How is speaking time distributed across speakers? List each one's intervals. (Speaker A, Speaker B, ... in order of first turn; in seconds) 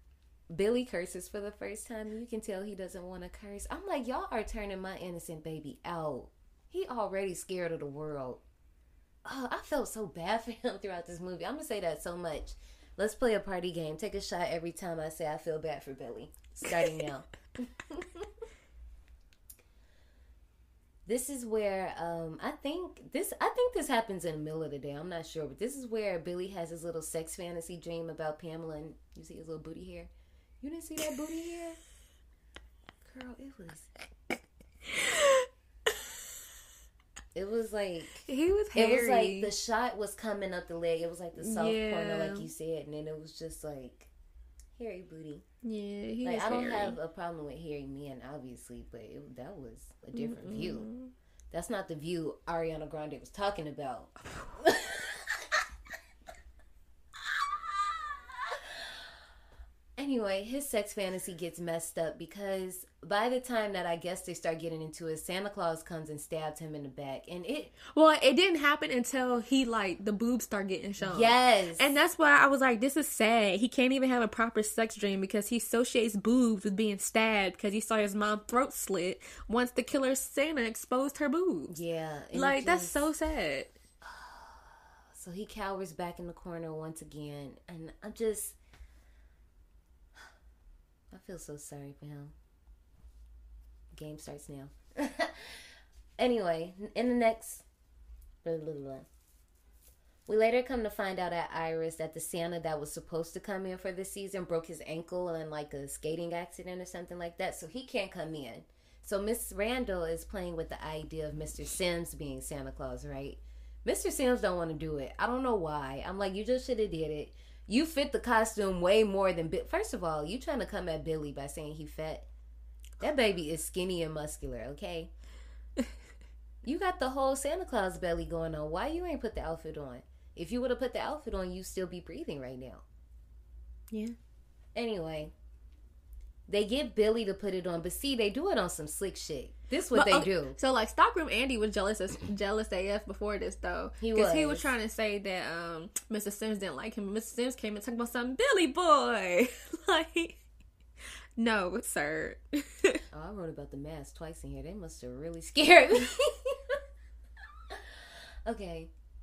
Speaker A: 0.5-8.4, 9.2-18.2, 21.1-31.8, 33.0-33.9, 37.3-44.1, 44.8-45.4, 46.2-50.9, 51.5-55.6, 57.3-58.0, 60.0-67.7, 71.0-71.9, 81.7-83.1, 84.0-88.6, 91.1-92.3, 93.9-97.6, 98.4-99.1, 100.2-122.3, 123.0-125.1, 126.6-132.8, 134.7-135.3, 136.5-140.6, 144.0-144.7, 153.1-156.8, 157.7-158.9
Speaker B: 35.0-35.3, 38.2-39.5, 41.4-42.5, 45.6-47.0, 50.1-51.1, 67.9-81.7, 82.3-83.7, 133.9-134.2, 139.9-150.4, 151.4-153.0